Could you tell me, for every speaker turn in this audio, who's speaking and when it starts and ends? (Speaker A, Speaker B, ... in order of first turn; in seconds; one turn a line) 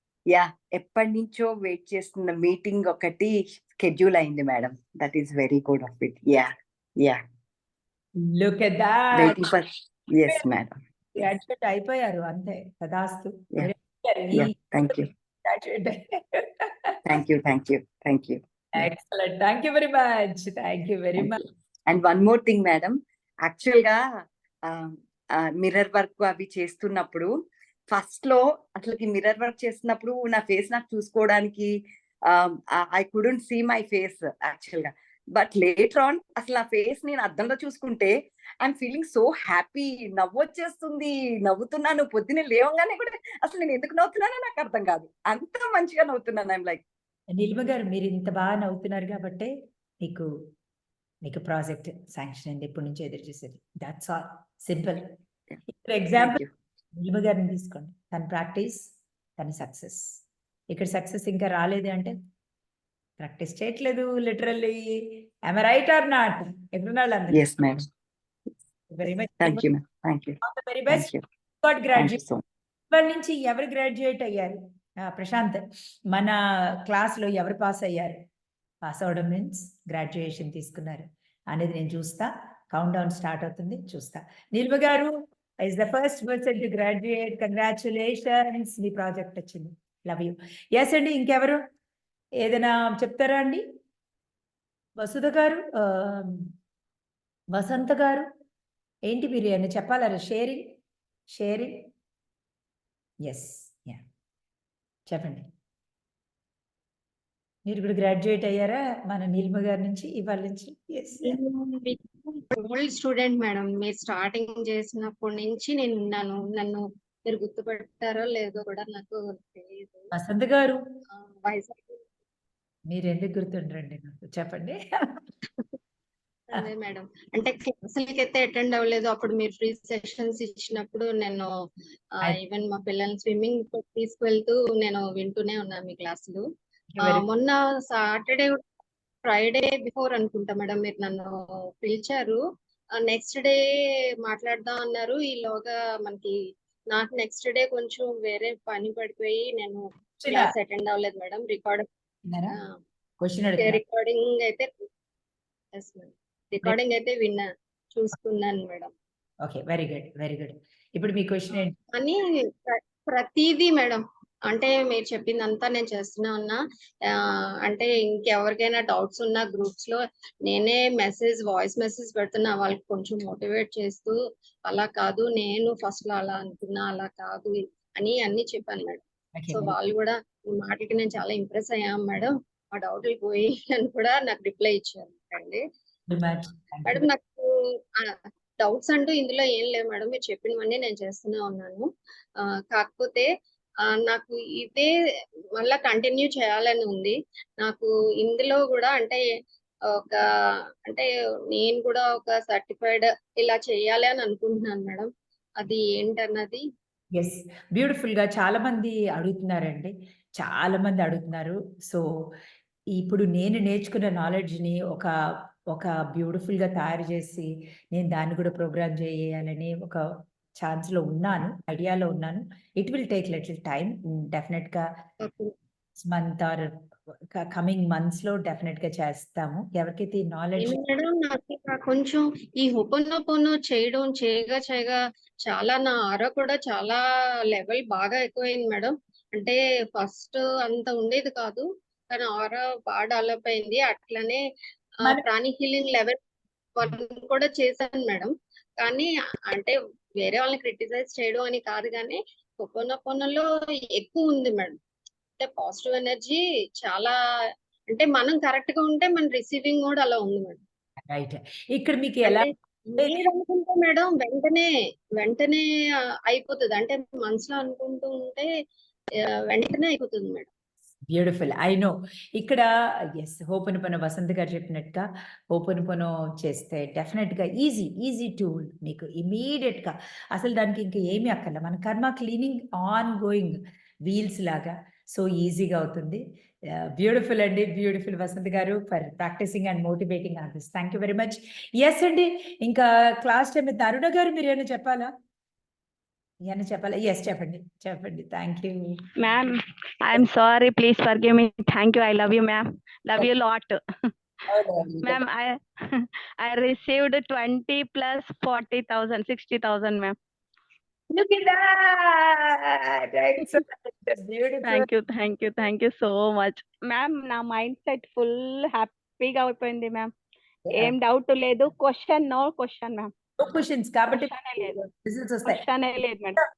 Speaker A: 0.3-7.2
Speaker B: 8.2-9.4
Speaker A: 9.1-10.8
Speaker B: 11.1-16.7
Speaker A: 14.3-15.1
Speaker A: 17.1-18.9
Speaker B: 18.8-21.4
Speaker A: 21.9-24.0
Speaker A: 24.7-27.3
Speaker A: 27.9-31.7
Speaker A: 32.3-46.8
Speaker B: 47.3-50.3
Speaker B: 51.2-55.1
Speaker B: 55.8-56.4
Speaker A: 56.2-56.5
Speaker B: 56.9-60.2
Speaker B: 60.7-62.1
Speaker B: 63.2-67.5
Speaker A: 67.3-67.8
Speaker B: 68.9-69.7
Speaker A: 69.4-70.4
Speaker B: 70.4-71.1
Speaker A: 70.9-71.2
Speaker B: 71.6-72.2
Speaker A: 72.0-72.4
Speaker B: 72.9-78.2
Speaker B: 78.8-91.6
Speaker B: 92.4-93.6
Speaker B: 95.0-96.5
Speaker B: 97.5-98.2
Speaker B: 99.1-100.6
Speaker B: 101.3-101.8
Speaker B: 103.2-104.0
Speaker B: 105.1-105.5
Speaker B: 107.7-111.3
Speaker C: 111.2-120.1
Speaker B: 120.1-120.8
Speaker C: 121.1-122.0
Speaker B: 122.9-124.8
Speaker C: 126.5-131.5
Speaker C: 132.2-136.4
Speaker B: 136.9-137.2
Speaker C: 137.0-138.6
Speaker C: 139.2-142.4
Speaker C: 143.0-143.6
Speaker C: 144.2-146.3
Speaker C: 146.9-151.8
Speaker B: 150.2-150.5
Speaker B: 152.3-152.6
Speaker B: 153.2-153.8
Speaker C: 153.6-154.7
Speaker C: 155.7-158.9
Speaker B: 159.4-161.7
Speaker C: 161.9-166.6
Speaker C: 167.6-174.2
Speaker C: 174.7-185.6
Speaker B: 179.3-179.7
Speaker B: 186.1-187.0
Speaker C: 186.9-187.4
Speaker C: 188.6-191.9
Speaker C: 192.7-193.3
Speaker C: 194.0-194.9
Speaker C: 195.6-199.2
Speaker C: 200.8-205.1
Speaker C: 205.6-206.6
Speaker B: 207.2-212.0
Speaker B: 212.9-215.1
Speaker B: 215.7-220.1
Speaker B: 220.6-224.8
Speaker C: 225.2-225.5
Speaker B: 226.0-226.7
Speaker B: 227.3-230.8
Speaker C: 230.6-237.0
Speaker C: 237.5-244.4
Speaker C: 245.1-246.2
Speaker C: 246.8-254.8
Speaker C: 255.4-257.1
Speaker C: 257.9-260.6
Speaker B: 261.1-263.1
Speaker C: 262.3-264.7
Speaker C: 265.2-265.6
Speaker C: 266.3-268.5
Speaker C: 269.5-270.5
Speaker B: 271.1-286.2
Speaker B: 286.8-295.1
Speaker B: 296.4-299.0
Speaker D: 299.2-303.8
Speaker A: 304.5-305.2
Speaker D: 305.0-310.1
Speaker B: 311.1-314.9
Speaker D: 314.6-320.1
Speaker D: 320.7-323.1
Speaker B: 323.4-325.6
Speaker D: 324.1-324.8
Speaker D: 325.5-326.4